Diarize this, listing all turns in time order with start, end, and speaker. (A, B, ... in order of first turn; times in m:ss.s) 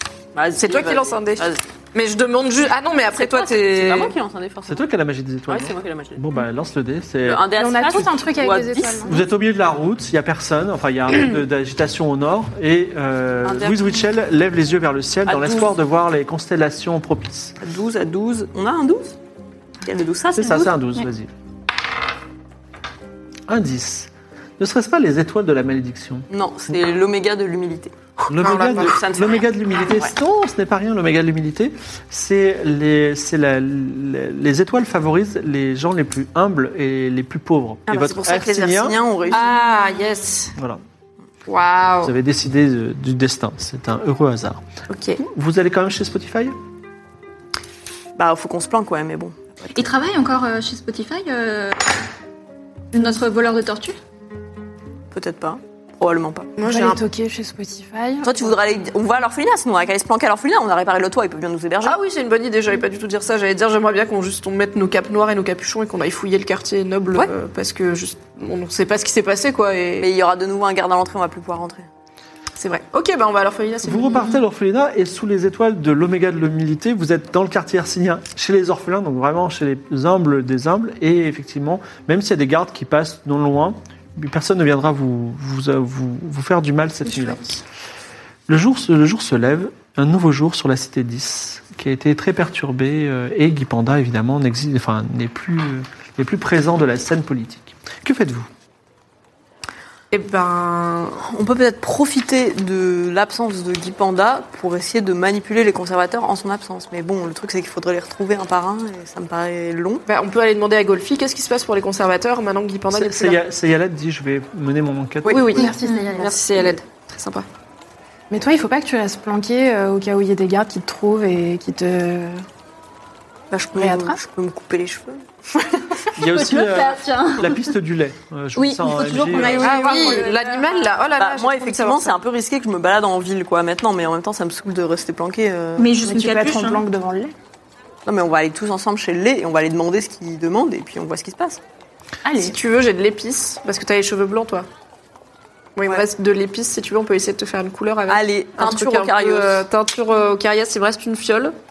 0:00.3-0:01.6 A
0:00.6-0:04.1 B
0:03.1-0:04.8 A
0:04.7-0:07.5 C
0:05.5-0:06.2 A
0:07.2-0:09.1 A
0:07.6-0:09.2 D
0:09.0-0:17.6 C
0:13.4-0:13.8 A
0:15.2-0:15.7 A
0:17.6-0:19.2 A
0:19.8-0:20.7 A
0:20.4-0:21.3 C
0:23.5-0:26.2 C
0:26.3-0:27.9 A
0:28.3-0:29.0 B
0:28.3-0:39.0 C
0:28.7-0:30.1 A
0:37.9-0:39.5 A
0:39.3-0:40.5 B
0:41.4-0:42.1 B
0:42.0-0:44.6 C
0:44.9-0:45.2 B
0:45.2-0:46.6 C
0:48.2-0:50.0 A
0:49.7-0:52.0 E
0:52.9-0:54.0 E
0:55.1-0:56.5 A
0:56.6-0:57.0 B
0:56.6-0:58.5 D
0:58.2-1:02.0 A
1:01.8-1:10.1 B
1:10.0-1:11.9 A
1:12.6-1:14.4 B
1:13.8-1:27.4 C
1:28.5-1:38.5 C
1:40.1-1:41.2 B
1:41.2-1:50.0 A
1:50.1-1:53.4 B
1:52.9-1:55.5 C
1:55.2-1:57.4 B
1:55.5-1:56.8 D
1:58.3-2:02.4 D
2:03.5-2:05.8 A
2:03.8-2:04.2 D
2:06.2-2:09.8 C
2:06.2-2:07.7 E
2:08.5-2:10.9 E
2:09.4-2:12.2 B
2:11.2-2:15.9 A
2:15.8-2:16.8 E
2:16.0-2:17.3 D
2:18.0-2:21.6 A
2:22.2-2:22.6 D
2:22.4-2:24.7 B
2:25.8-2:31.5 B
2:28.1-2:29.7 A